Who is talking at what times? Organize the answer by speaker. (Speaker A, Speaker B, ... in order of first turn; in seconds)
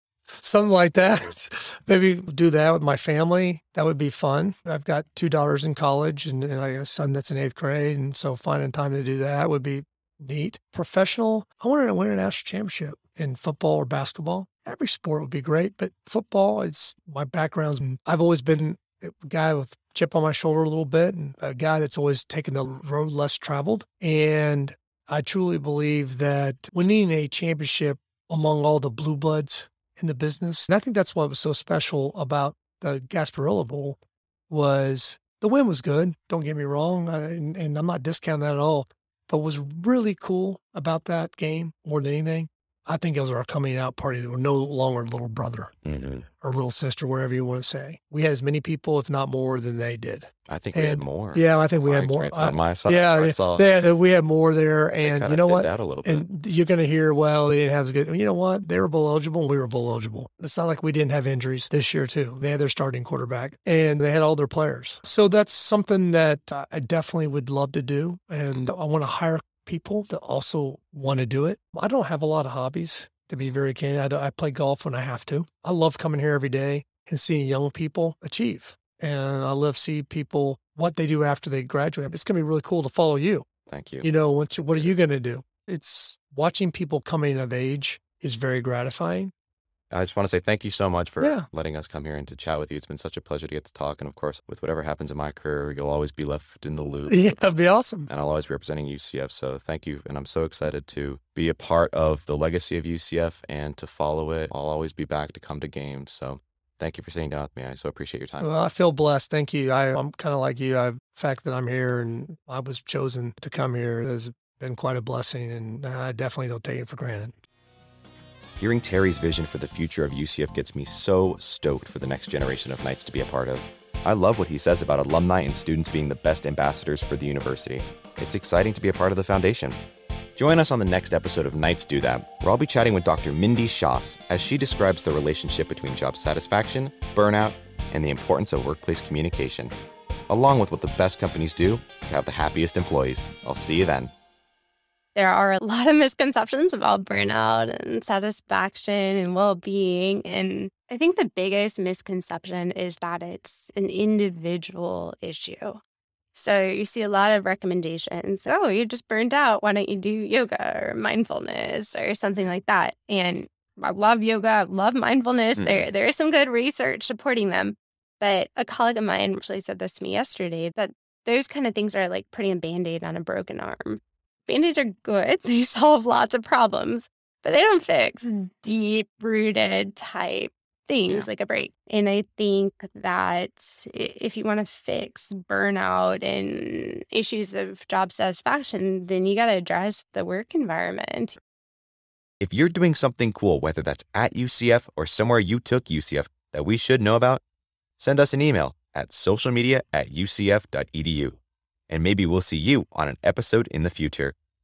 Speaker A: 0.4-34.0, 34.5-45.7, 46.4-83.5, 84.0-89.3, 91.2-91.5, 97.1-98.1, 108.4-117.3
Speaker B: 45.8-46.2, 50.5-53.6, 55.0-56.2, 83.7-84.1, 89.9-97.2, 98.1-108.5, 118.6-129.8, 130.3-139.7, 140.3-144.1, 165.6-165.9, 192.4-197.4, 198.0-201.4, 201.9-204.3
Speaker C: 145.1-155.8, 156.3-191.4